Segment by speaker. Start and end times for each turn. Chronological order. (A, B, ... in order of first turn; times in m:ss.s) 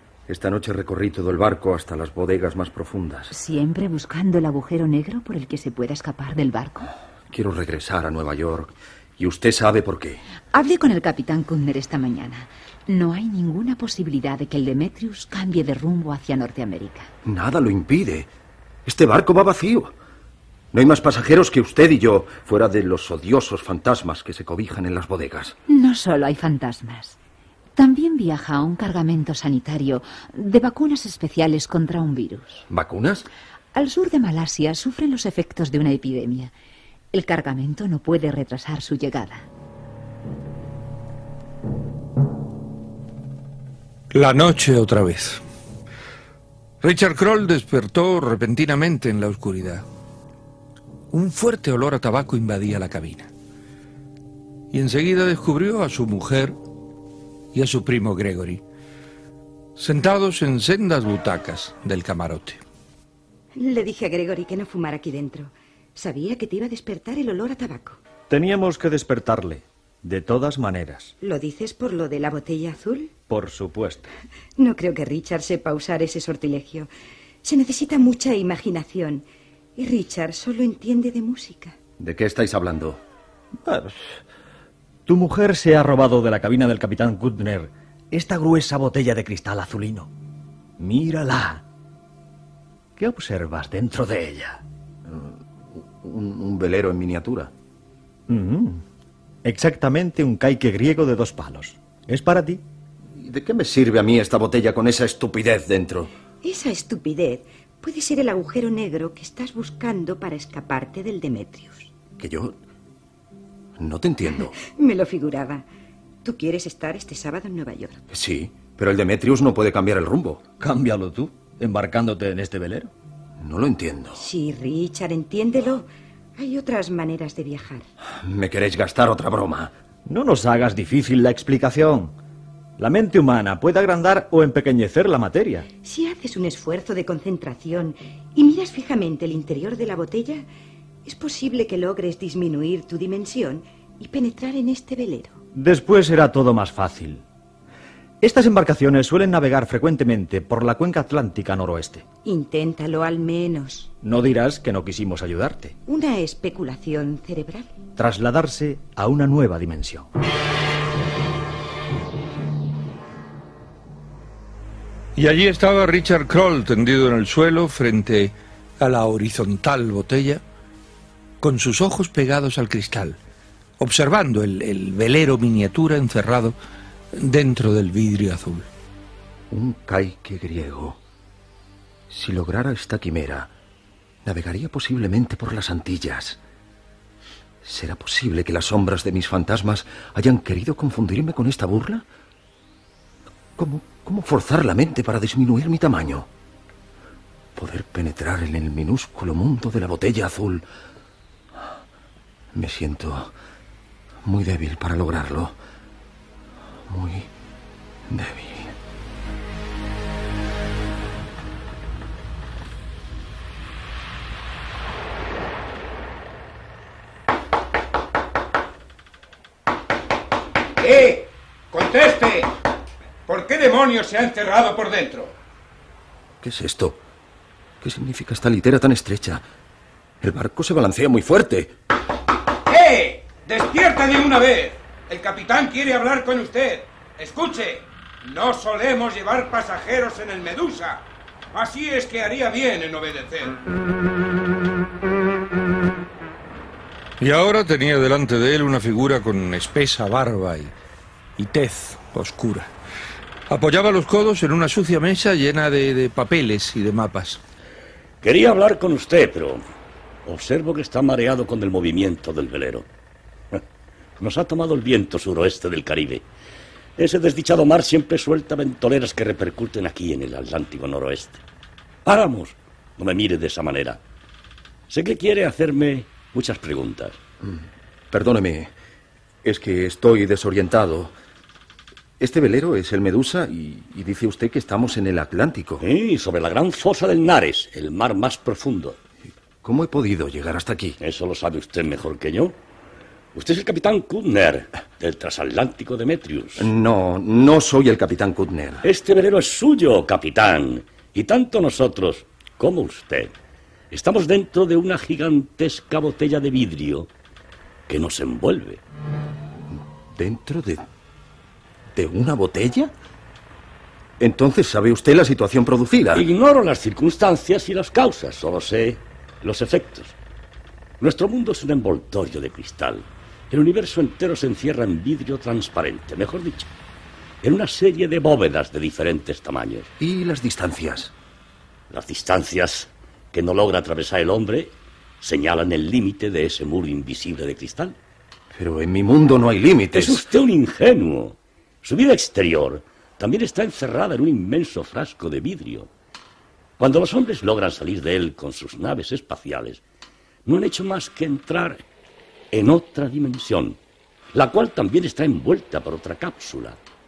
0:00.3-0:03.3 A
0:03.3-0:06.9 B
0:07.3-0:10.2 A
0:10.5-0:17.1 B
0:17.2-0:18.3 A
0:18.9-0:19.9 A
0:20.7-0:25.6 A
0:25.7-0:27.2 B
0:27.8-0:32.7 B
0:32.7-0:33.3 A
0:33.7-0:36.5 B
0:37.1-0:39.5 B
0:44.1-0:45.4 C
0:46.8-0:49.9 C
0:51.1-0:53.3 C
0:54.7-0:56.6 C
0:57.5-0:58.6 C
0:59.8-1:02.6 C
1:03.6-1:08.0 D
1:08.3-1:11.1 E
1:11.2-1:13.1 D
1:13.3-1:14.1 E
1:14.6-1:16.9 D
1:17.4-1:19.2 D
1:19.8-1:21.8 D
1:22.0-1:23.0 A
1:23.6-1:24.0 E
1:25.1-1:30.1 E
1:30.8-1:31.6 E
1:33.0-1:34.6 E
1:35.1-1:37.5 A
1:38.3-1:38.8 E
1:39.4-1:42.6 E
1:43.2-1:46.1 A
1:46.4-1:51.9 D
1:52.2-1:52.6 A
1:53.8-1:54.6 A
1:54.6-1:55.7 D
1:56.2-1:58.0 D
1:58.1-2:00.4 A
2:00.6-2:02.9 E
2:03.4-2:04.2 A
2:04.2-2:07.9 D
2:08.1-2:09.8 A
2:10.1-2:12.1 E
2:12.8-2:15.7 E
2:15.8-2:20.4 D
2:21.0-2:25.4 D
2:25.5-2:27.2 E
2:28.2-2:32.0 E
2:32.2-2:33.9 D
2:34.0-2:35.8 E
2:35.9-2:37.7 D
2:38.0-2:40.1 E
2:45.2-2:50.4 C
2:51.4-2:53.2 C
2:53.8-2:56.6 C
2:57.2-2:58.7 C
2:59.5-3:01.0 A
3:02.1-3:03.5 A
3:04.2-3:06.4 A
3:07.6-3:12.1 A
3:13.6-3:16.3 A
3:17.6-3:20.6 A
3:22.5-3:23.3 A
3:24.2-3:25.6 A
3:26.9-3:27.3 A
3:28.1-3:28.8 A
3:40.8-3:42.5 F
3:43.3-3:45.3 F
3:46.4-3:47.0 A
3:47.8-3:49.4 A
3:50.2-3:51.7 A
3:52.7-4:01.0 F
4:01.5-4:03.6 F
4:07.2-4:10.7 C
4:11.4-4:12.7 C
4:13.5-4:17.4 C
4:18.2-4:19.6 G
4:20.3-4:22.9 G
4:24.2-4:26.2 G
4:27.0-4:31.4 G
4:32.0-4:34.0 G
4:34.9-4:37.2 G
4:37.4-4:38.7 A
4:39.4-4:41.1 A
4:42.2-4:45.8 A
4:45.8-4:49.0 G
4:49.6-4:51.0 A
4:51.0-4:52.6 G
4:53.3-4:56.7 G
4:56.6-4:58.8 A
4:58.8-5:03.3 G
5:03.9-5:07.1 G
5:07.9-5:08.8 G
5:10.1-5:10.9 A
5:12.0-5:12.9 A
5:14.2-5:16.3 A
5:16.1-5:20.2 G
5:21.0-5:26.7 G
5:27.4-5:29.9 G
5:30.0-5:31.1 A
5:31.9-5:38.0 G
5:38.5-5:40.2 A
5:39.9-5:45.9 G
5:46.8-5:49.8 G
5:50.5-5:51.8 G
5:52.5-5:53.8 G
5:54.3-5:56.8 G